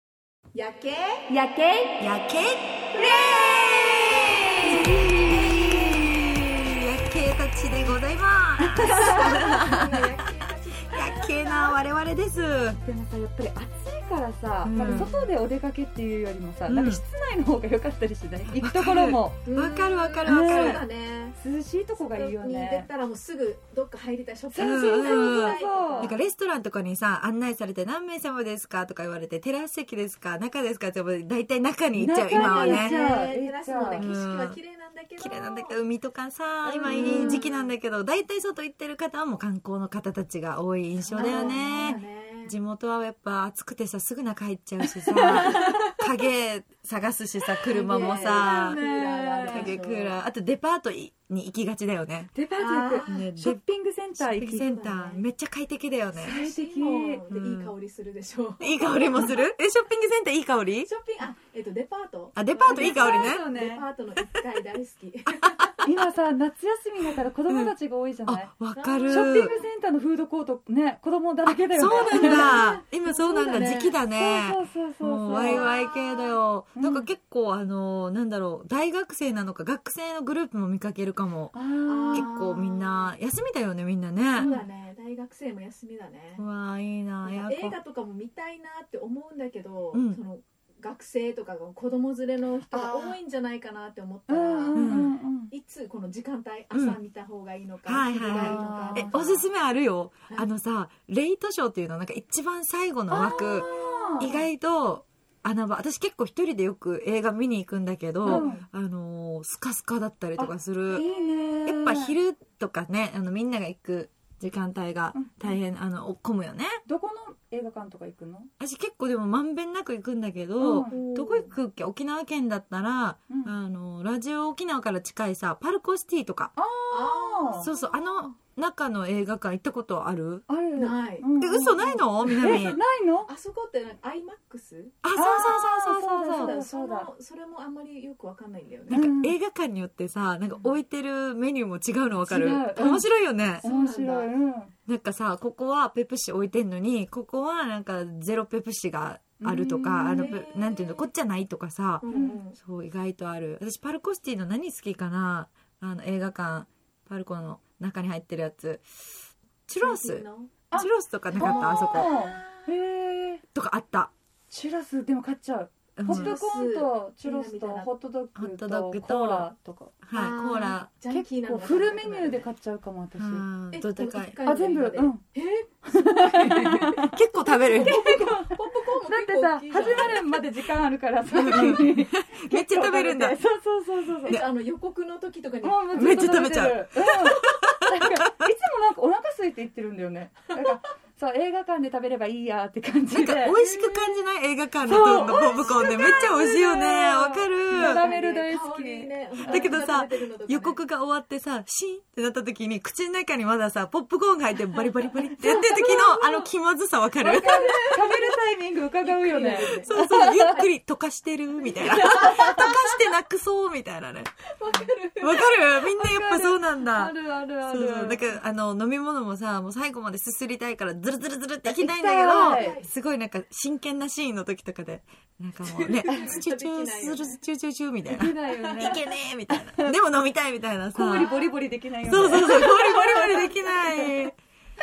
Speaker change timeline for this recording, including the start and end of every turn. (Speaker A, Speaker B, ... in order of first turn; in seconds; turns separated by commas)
Speaker A: 0.5-1.3, Speaker B: 1.3-2.0, Speaker C: 2.0-10.0, Speaker A: 3.0-3.9, Speaker B: 4.6-6.1, Speaker B: 8.8-9.5, Speaker A: 9.0-11.8, Speaker C: 10.9-12.8, Speaker B: 12.8-19.4, Speaker C: 14.6-15.1, Speaker A: 14.7-15.3, Speaker C: 16.7-17.0, Speaker C: 18.6-20.8, Speaker A: 19.5-21.4, Speaker B: 20.2-20.8, Speaker B: 21.4-22.9, Speaker A: 22.0-26.2, Speaker B: 24.5-26.1, Speaker C: 24.6-33.0, Speaker B: 31.9-34.1, Speaker A: 32.3-35.8, Speaker C: 34.0-34.6, Speaker C: 35.2-48.8, Speaker A: 36.6-37.7, Speaker B: 36.9-37.4, Speaker A: 41.0-42.6, Speaker B: 41.2-42.0, Speaker B: 45.1-45.7, Speaker A: 45.2-45.9, Speaker B: 47.7-49.8, Speaker A: 47.7-50.2, Speaker C: 49.5-52.3, Speaker B: 52.3-54.7, Speaker A: 52.6-53.3, Speaker C: 53.1-53.6, Speaker C: 54.2-56.4, Speaker A: 54.5-55.2, Speaker B: 56.2-57.2, Speaker A: 56.2-59.5, Speaker C: 57.3-57.7, Speaker C: 58.6-60.9, Speaker A: 60.9-65.9, Speaker C: 62.4-63.5, Speaker B: 62.7-63.9, Speaker B: 65.8-68.5, Speaker C: 67.5-67.8, Speaker C: 68.3-69.5, Speaker A: 68.8-69.7, Speaker B: 69.1-75.7, Speaker C: 71.5-81.5, Speaker A: 71.8-72.8, Speaker A: 73.5-74.0, Speaker A: 75.3-76.4, Speaker B: 76.8-77.1, Speaker B: 81.5-82.3, Speaker A: 81.9-83.1, Speaker C: 82.1-84.5, Speaker B: 84.4-84.7, Speaker A: 84.4-86.4, Speaker C: 86.4-87.8, Speaker A: 87.2-99.4, Speaker C: 89.9-90.2, Speaker B: 92.7-93.2, Speaker B: 94.3-95.5, Speaker C: 94.7-95.1, Speaker C: 96.7-97.0, Speaker C: 97.8-111.1, Speaker B: 98.3-99.2, Speaker B: 103.1-104.3, Speaker A: 103.2-104.5, Speaker A: 108.2-108.6, Speaker B: 108.2-108.7, Speaker B: 110.4-112.2, Speaker A: 110.9-111.7, Speaker C: 111.7-116.8, Speaker B: 115.1-115.6, Speaker B: 116.9-118.5, Speaker C: 118.6-126.5, Speaker B: 120.6-120.9, Speaker A: 120.9-121.5, Speaker B: 126.6-127.7, Speaker A: 126.9-128.4, Speaker C: 127.6-130.5, Speaker B: 130.5-133.3, Speaker A: 130.8-131.3, Speaker C: 131.4-132.8, Speaker A: 131.9-135.0, Speaker C: 135.0-136.5, Speaker B: 135.2-137.1, Speaker A: 136.3-139.1, Speaker C: 138.9-143.7, Speaker B: 138.9-139.3, Speaker B: 142.2-143.1, Speaker A: 143.6-144.3, Speaker B: 143.6-144.7, Speaker C: 144.9-152.1, Speaker B: 149.4-150.4, Speaker A: 150.1-151.1, Speaker A: 152.0-152.6, Speaker B: 152.1-152.4, Speaker C: 152.6-162.1, Speaker A: 159.8-160.6, Speaker B: 160.7-163.4, Speaker A: 161.4-162.7, Speaker C: 163.5-164.1, Speaker B: 164.5-170.0, Speaker C: 166.0-166.4, Speaker A: 166.1-167.9, Speaker C: 168.4-169.5, Speaker C: 170.0-170.9, Speaker A: 170.1-172.5, Speaker B: 171.1-173.5, Speaker C: 173.2-174.4, Speaker A: 173.7-180.2, Speaker B: 174.4-175.2, Speaker B: 175.9-177.2, Speaker C: 177.1-177.9, Speaker B: 177.7-178.4, Speaker B: 179.0-184.4, Speaker C: 181.3-183.4, Speaker A: 184.2-186.2, Speaker B: 185.6-193.6, Speaker C: 185.9-188.5, Speaker C: 193.1-198.1, Speaker A: 193.5-194.1, Speaker B: 194.8-199.8, Speaker A: 194.9-196.5, Speaker A: 197.7-200.8, Speaker C: 199.5-207.6, Speaker A: 204.7-206.0, Speaker B: 205.5-206.5, Speaker B: 207.2-210.6, Speaker A: 207.4-208.2, Speaker A: 209.0-210.6, Speaker C: 209.5-214.5, Speaker A: 211.7-212.9, Speaker A: 214.6-215.7, Speaker C: 215.2-231.3, Speaker B: 216.0-218.3, Speaker B: 221.6-222.8, Speaker A: 222.3-222.9, Speaker A: 225.8-227.4, Speaker B: 226.1-226.3, Speaker B: 228.1-229.9, Speaker B: 230.9-234.3, Speaker A: 231.1-231.5, Speaker C: 232.0-234.4